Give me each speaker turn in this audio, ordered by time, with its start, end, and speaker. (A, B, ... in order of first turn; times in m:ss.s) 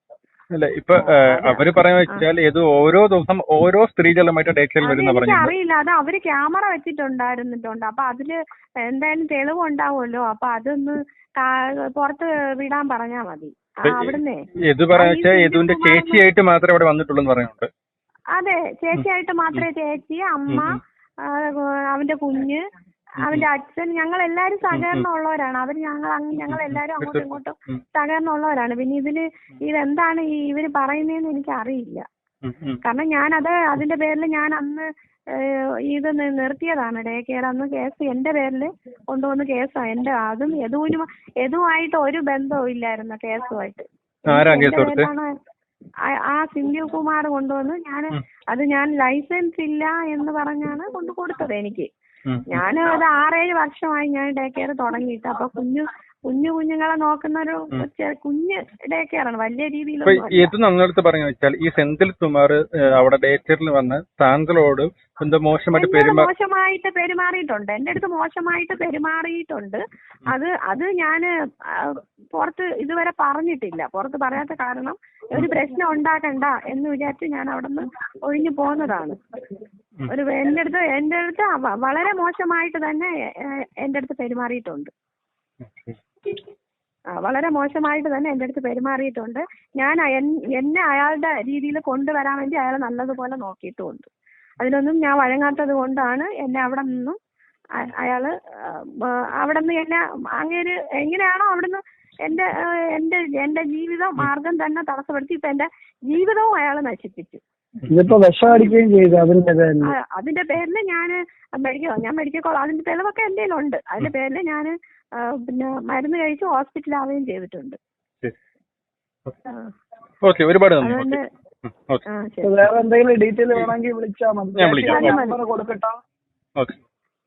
0:00.5-0:05.5 A
0:01.0-0:02.2 B
0:04.8-0:08.3 B
0:08.9-0:14.4 B
0:13.8-0:17.7 A
0:14.9-0:16.2 B
0:18.3-0:22.6 B
0:18.9-0:19.6 A
0:20.5-0:20.8 A
0:23.2-0:23.5 A
0:23.2-0:32.0 B
0:24.7-0:25.1 A
0:26.5-0:27.8 A
0:32.4-0:32.8 A
0:32.8-0:45.3 B
0:44.3-0:45.1 A
0:46.3-0:51.9 B
0:52.5-1:00.5 B
1:00.0-1:06.3 A
1:05.7-1:19.2 B
1:20.1-1:23.1 B
1:23.8-1:24.9 B
1:25.6-1:26.0 A
1:27.2-1:34.1 B
1:34.6-1:37.2 B
1:37.8-1:47.4 B
1:47.8-1:48.1 A
1:47.9-1:49.9 C
1:48.4-1:48.8 B
1:49.9-1:57.8 B
2:00.2-2:02.0 A
2:00.8-2:01.2 B
2:02.1-2:02.6 B
2:02.4-2:05.9 C
2:04.5-2:05.2 A
2:04.9-2:05.4 B